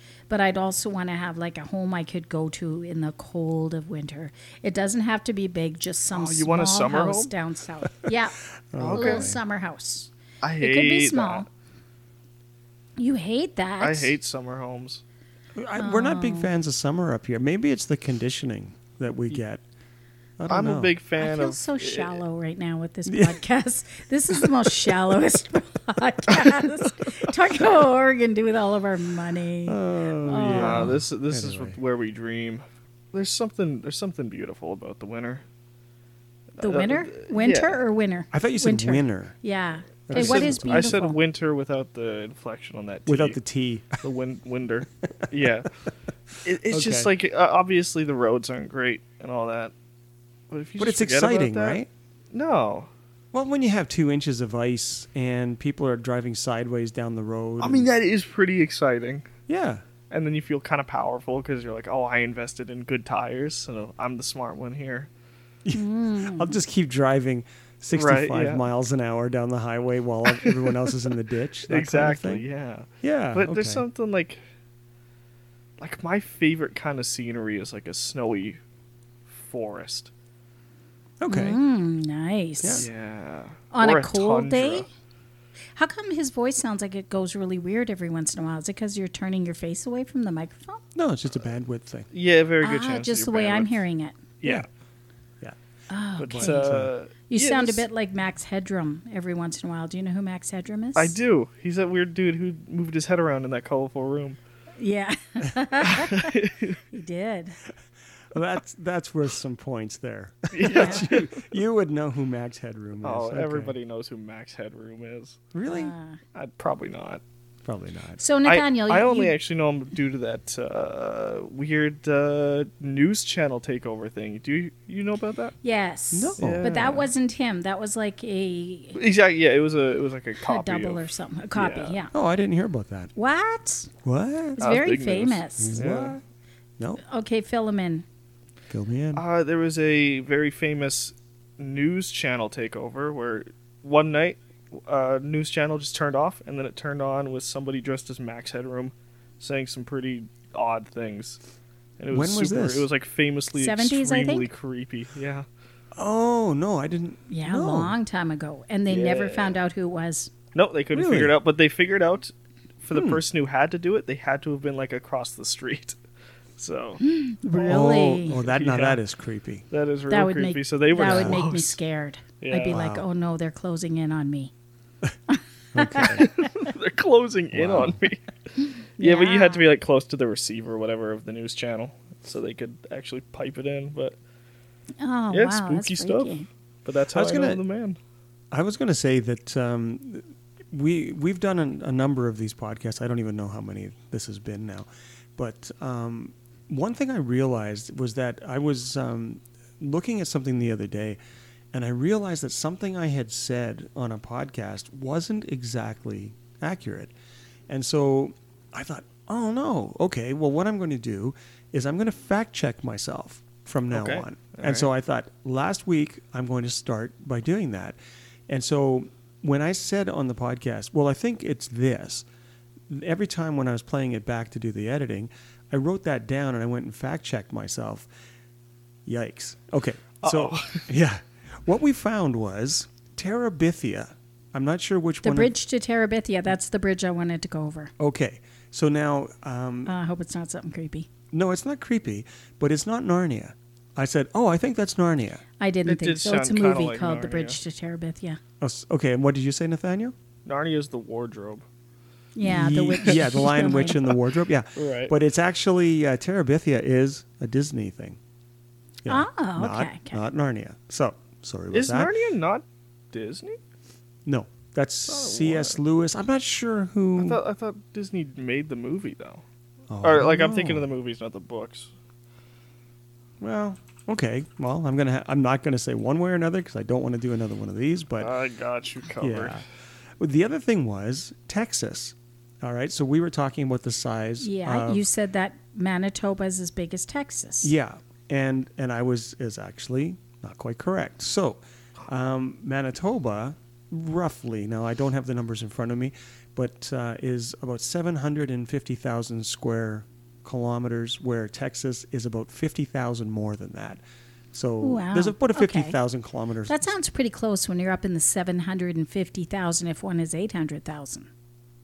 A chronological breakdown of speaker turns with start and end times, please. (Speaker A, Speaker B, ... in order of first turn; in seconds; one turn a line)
Speaker A: 0.3-11.5
Speaker B: 6.1-7.3
Speaker C: 8.7-9.4
Speaker B: 8.8-9.3
Speaker B: 10.4-11.5
Speaker A: 13.0-14.2
Speaker B: 13.8-15.0
Speaker C: 15.6-19.6
Speaker A: 15.8-16.5
Speaker C: 20.4-20.9
Speaker B: 20.5-22.2
Speaker A: 21.2-30.9
Speaker C: 23.1-23.4
Speaker C: 24.4-24.9
Speaker C: 29.7-31.8
Speaker B: 30.4-35.4
Speaker B: 36.6-37.8
Speaker A: 36.6-41.2
Speaker C: 38.3-39.4
Speaker C: 40.1-41.0
Speaker B: 40.1-43.4
Speaker C: 43.1-44.0
Speaker B: 44.0-45.7
Speaker B: 46.4-49.7
Speaker C: 46.7-47.1
Speaker B: 50.5-51.8
Speaker C: 50.8-51.9
Speaker B: 52.3-52.9
Speaker C: 53.3-57.9
Speaker B: 57.6-59.3
Speaker C: 59.5-59.9
Speaker B: 60.1-65.1
Speaker C: 65.7-72.5
Speaker A: 65.7-66.6
Speaker B: 67.9-68.6
Speaker B: 70.3-70.7
Speaker B: 71.7-74.4
Speaker C: 73.0-73.8
Speaker B: 75.8-78.6
Speaker B: 79.3-80.1
Speaker C: 81.2-81.6
Speaker A: 81.3-82.9
Speaker C: 82.6-82.9
Speaker B: 82.8-84.9
Speaker A: 83.7-84.9
Speaker A: 85.8-90.8
Speaker C: 91.0-92.1
Speaker B: 92.1-93.8
Speaker A: 92.6-94.3
Speaker B: 94.4-94.7
Speaker A: 95.9-101.2
Speaker C: 96.2-96.9
Speaker B: 96.2-97.9
Speaker B: 101.0-104.4
Speaker A: 104.8-106.4
Speaker B: 105.8-106.8
Speaker A: 106.9-107.6
Speaker C: 108.3-113.8
Speaker B: 110.5-111.5
Speaker A: 110.6-111.1
Speaker B: 113.0-115.5
Speaker C: 115.5-115.9
Speaker A: 115.7-116.2
Speaker B: 116.3-117.2
Speaker C: 117.6-118.2
Speaker A: 118.2-119.4
Speaker B: 118.5-125.5
Speaker A: 125.6-129.0
Speaker C: 126.1-127.0
Speaker B: 126.4-127.1
Speaker B: 128.9-131.0
Speaker A: 130.4-132.1
Speaker B: 131.5-132.0
Speaker C: 132.1-133.1
Speaker A: 133.2-133.9
Speaker C: 134.0-134.6
Speaker A: 134.6-135.8
Speaker B: 134.6-136.2
Speaker C: 135.6-136.2
Speaker A: 137.0-138.1
Speaker C: 138.7-139.2
Speaker B: 139.2-151.4
Speaker B: 152.0-155.5
Speaker C: 152.1-152.9
Speaker A: 153.6-154.5
Speaker C: 155.9-157.9
Speaker A: 157.3-160.3
Speaker B: 158.9-159.6
Speaker B: 160.5-166.0
Speaker C: 160.9-161.3
Speaker C: 162.9-163.2
Speaker B: 166.6-167.0
Speaker A: 167.0-168.4
Speaker C: 167.6-169.7
Speaker B: 167.7-169.0
Speaker B: 169.7-171.8
Speaker A: 170.1-174.5
Speaker C: 171.0-171.4
Speaker B: 172.4-172.8
Speaker C: 172.6-173.1
Speaker A: 175.3-176.5
Speaker C: 175.7-176.3
Speaker B: 176.1-178.2
Speaker C: 177.5-178.0
Speaker A: 179.0-179.7
Speaker B: 179.0-184.2
Speaker A: 185.0-186.5
Speaker B: 185.3-188.0
Speaker C: 187.1-187.6
Speaker C: 188.5-201.2
Speaker C: 201.7-207.1
Speaker C: 207.7-218.0
Speaker B: 213.9-214.9
Speaker C: 218.5-222.3
Speaker C: 222.9-228.1
Speaker C: 229.1-235.5
Speaker B: 230.2-230.9
Speaker A: 235.2-237.9
Speaker C: 238.0-239.9
Speaker A: 239.9-241.1
Speaker C: 241.3-245.4
Speaker A: 245.6-248.4
Speaker B: 245.9-247.6
Speaker C: 248.6-250.1
Speaker B: 250.5-251.7
Speaker A: 252.4-254.0
Speaker C: 252.4-258.2
Speaker B: 253.1-253.5
Speaker B: 254.8-255.1
Speaker C: 259.0-262.1
Speaker A: 259.1-260.2
Speaker B: 261.7-263.6
Speaker C: 264.3-267.4
Speaker B: 265.1-265.8
Speaker B: 267.2-269.4
Speaker C: 269.9-270.9
Speaker B: 270.0-271.9
Speaker C: 273.4-278.3
Speaker B: 278.2-279.6
Speaker C: 279.2-279.6
Speaker C: 280.2-285.1
Speaker A: 284.4-287.7
Speaker C: 287.6-304.0
Speaker C: 304.5-306.9
Speaker A: 304.8-306.0
Speaker A: 306.7-311.3